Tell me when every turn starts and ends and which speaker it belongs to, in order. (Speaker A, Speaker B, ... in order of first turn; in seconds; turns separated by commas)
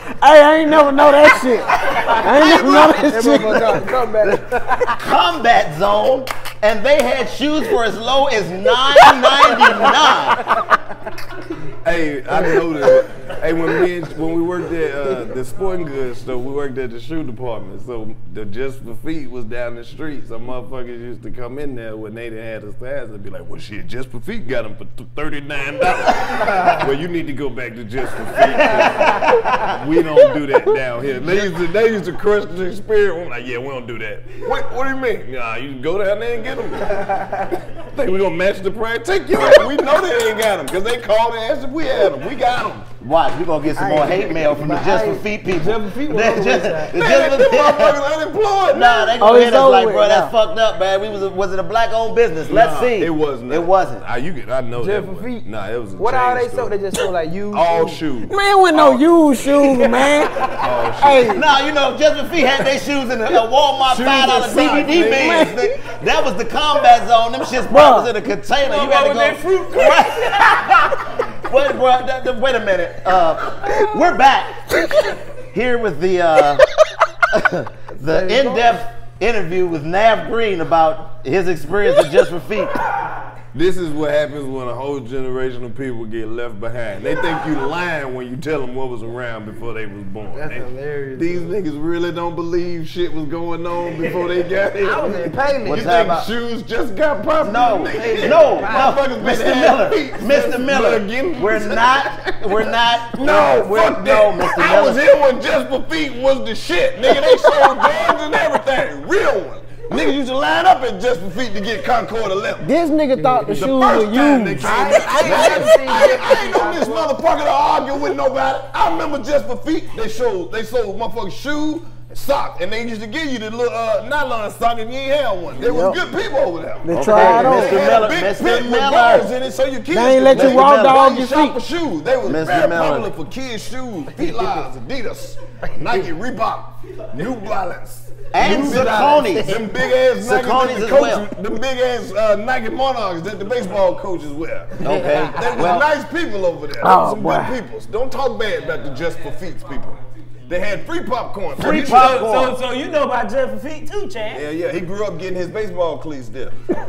Speaker A: 0.2-4.0, Speaker B: 1.9-4.9, Speaker C: 4.2-10.5, Speaker B: 9.0-10.0, Speaker D: 11.8-36.9, Speaker B: 37.1-37.4, Speaker D: 37.8-42.9, Speaker C: 43.0-48.0, Speaker B: 43.7-47.0, Speaker D: 47.0-49.5, Speaker C: 48.7-54.0, Speaker A: 49.2-50.3, Speaker D: 52.5-56.8, Speaker B: 54.8-55.5, Speaker B: 56.0-58.0, Speaker D: 57.5-59.0, Speaker A: 58.3-61.4, Speaker D: 60.6-61.4, Speaker C: 61.3-76.6, Speaker D: 63.9-65.5, Speaker A: 64.9-65.7, Speaker A: 67.7-68.1, Speaker B: 68.6-70.9, Speaker C: 77.3-82.8, Speaker B: 78.1-78.7, Speaker D: 83.5-112.7, Speaker B: 90.3-91.5, Speaker B: 94.7-95.9, Speaker C: 95.6-96.3, Speaker C: 97.4-105.0, Speaker B: 97.9-99.0, Speaker A: 112.6-115.8, Speaker B: 113.2-113.6, Speaker D: 113.5-152.2, Speaker B: 114.6-117.1, Speaker A: 125.6-126.0, Speaker A: 126.8-128.0, Speaker C: 126.9-129.3, Speaker A: 129.9-131.6, Speaker C: 130.3-131.1, Speaker C: 132.2-133.1, Speaker C: 138.3-141.3, Speaker C: 144.8-145.9, Speaker B: 144.9-145.2, Speaker A: 146.8-147.6, Speaker C: 151.6-152.6, Speaker B: 151.6-154.4, Speaker D: 154.3-156.6